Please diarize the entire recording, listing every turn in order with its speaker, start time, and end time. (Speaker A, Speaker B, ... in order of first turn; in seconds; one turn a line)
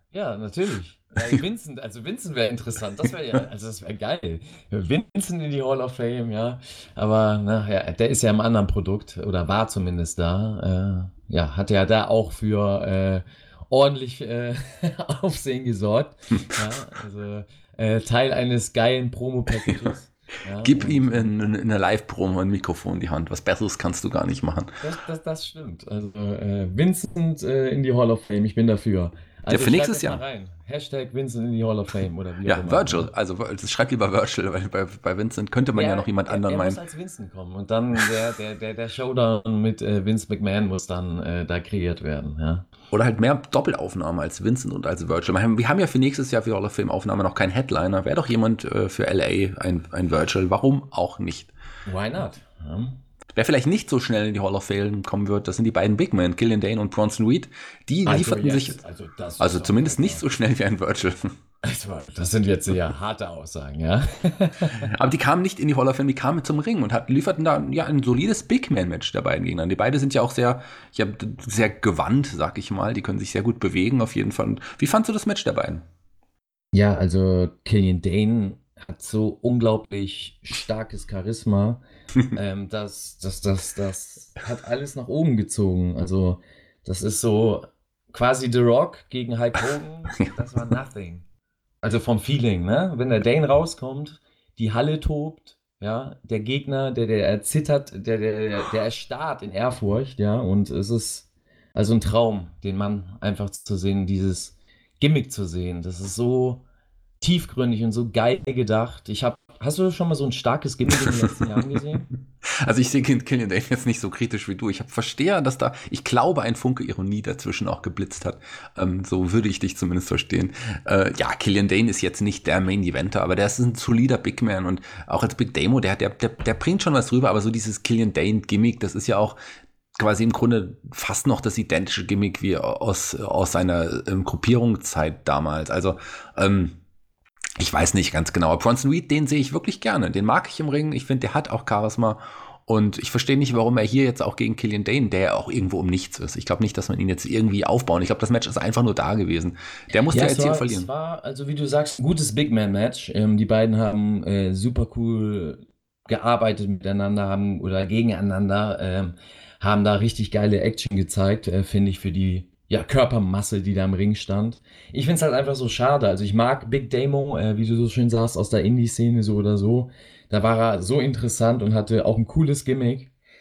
Speaker A: 0.1-21.3
Speaker B: 20.6-24.7
Speaker A: 24.8-33.1
Speaker B: 29.5-30.2
Speaker B: 32.4-36.8
Speaker A: 35.7-42.7
Speaker B: 42.9-51.5
Speaker A: 51.9-52.9
Speaker B: 53.3-58.8
Speaker A: 58.0-60.2
Speaker B: 59.4-61.3
Speaker A: 61.6-64.9
Speaker B: 64.8-75.8
Speaker A: 76.7-81.8
Speaker A: 82.3-91.2
Speaker A: 91.8-106.6
Speaker A: 107.2-112.1
Speaker B: 112.5-129.4
Speaker B: 129.9-136.8
Speaker B: 137.6-150.9
Speaker A: 150.1-173.1